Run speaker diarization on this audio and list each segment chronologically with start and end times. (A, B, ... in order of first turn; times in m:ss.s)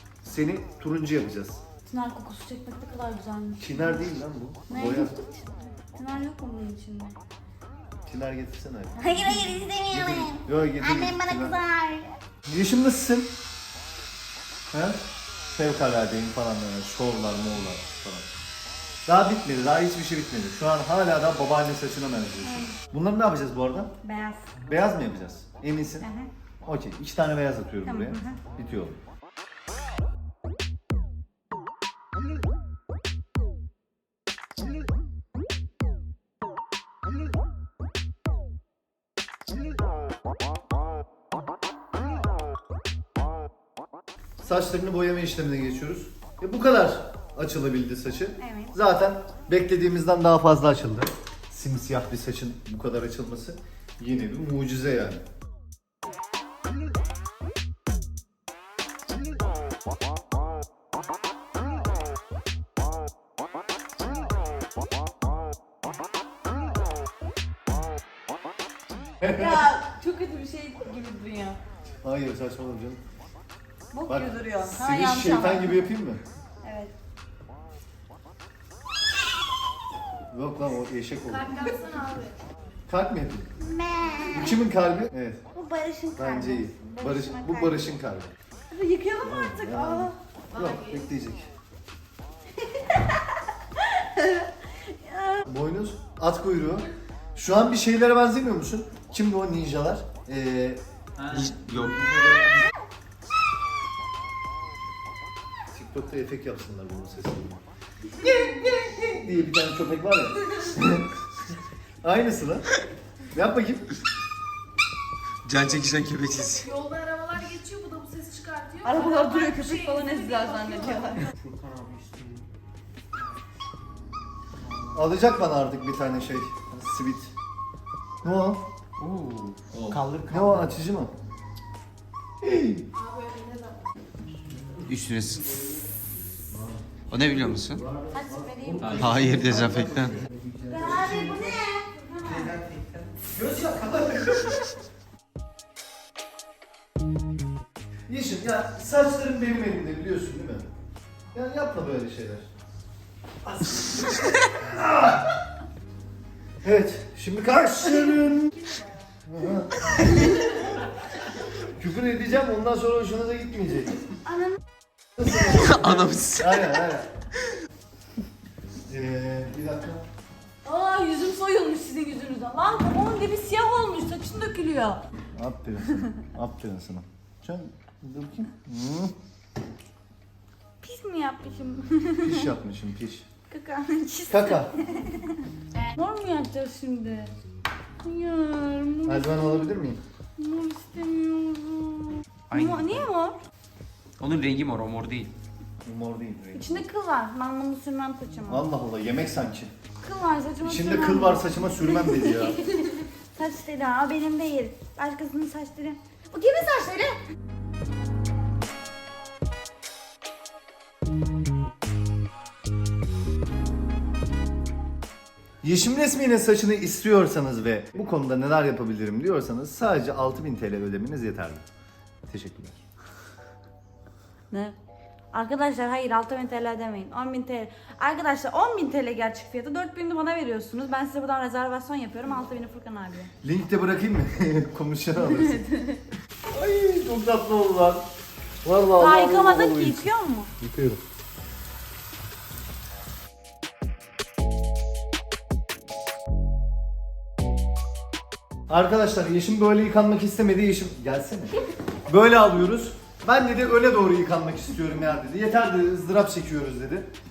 0:00.2-0:01.6 A
0:01.8-0:04.0 B
0:03.6-0:05.1 A
0:04.7-0:07.2 B
0:08.1-0:09.4 A
0:09.0-0:12.1 B
0:09.9-0:11.6 A
0:12.5-0:13.3 A
0:14.7-0:18.3 A
0:19.1-0:23.9 A
0:22.4-0:22.7 B
0:24.0-0:24.5 B
0:24.7-0:26.1 A
0:26.0-0:26.3 B
0:26.6-0:29.0 A
0:27.8-0:28.4 B
0:44.4-0:55.2 A
0:48.4-0:48.8 B
1:09.2-1:11.6 B
1:12.0-1:13.0 A
1:13.9-1:15.8 B
1:14.1-1:16.2 A
1:16.6-1:16.9 B
1:20.3-1:21.6 A
1:21.3-1:22.4 C
1:22.9-1:23.5 A
1:23.6-1:24.5 B
1:24.3-1:25.4 A
1:25.5-1:27.9 B
1:26.2-1:28.3 A
1:28.7-1:30.2 B
1:29.2-1:31.5 A
1:30.5-1:31.1 C
1:32.7-1:33.2 B
1:33.9-1:34.5 B
1:35.0-1:35.4 B
1:35.5-1:40.8 A
1:41.2-1:42.6 D
1:45.7-1:47.6 A
1:48.2-1:51.1 A
1:52.0-1:52.7 A
1:53.3-1:53.9 A
1:55.4-1:56.7 D
1:56.4-2:01.2 C
1:58.8-2:01.3 B
2:01.5-2:02.4 D
2:04.9-2:07.3 A
2:08.2-2:08.6 A
2:09.0-2:10.6 D
2:09.8-2:11.1 A
2:12.4-2:12.8 A
2:13.0-2:13.8 C
2:14.9-2:15.5 D
2:17.1-2:17.8 D
2:18.1-2:19.7 B
2:18.8-2:20.3 D
2:18.8-2:19.9 A
2:20.6-2:22.6 B
2:23.4-2:24.6 A
2:28.1-2:30.7 A
2:31.3-2:32.5 A
2:33.5-2:33.8 A
2:34.5-2:35.3 A
2:36.6-2:38.6 A
2:39.3-2:39.9 A
2:41.6-2:44.0 A
2:45.2-2:45.6 A
2:45.4-2:46.8 D
2:46.4-2:47.1 A
2:48.9-2:50.0 A
2:50.6-2:55.0 B
2:55.3-2:59.1 A
3:00.8-3:02.5 B
3:02.2-3:03.3 A
3:03.5-3:05.4 B
3:04.3-3:04.7 A
3:06.0-3:07.3 B
3:08.0-3:09.5 B
3:09.1-3:10.0 A
3:10.4-3:13.4 B
3:12.5-3:13.0 D
3:14.2-3:15.3 D
3:15.8-3:16.8 A
3:16.5-3:18.7 B
3:18.5-3:19.7 A
3:20.0-3:27.2 B
3:20.6-3:22.6 A
3:35.6-3:41.6 A
3:42.3-3:42.8 A
3:45.3-3:53.3 B
3:53.4-3:55.6 A
3:55.2-3:56.0 B
3:56.5-3:58.0 A
3:58.6-4:00.1 A
3:59.0-4:00.5 B
4:00.6-4:01.0 A
4:08.7-4:11.5 A
4:12.1-4:17.1 A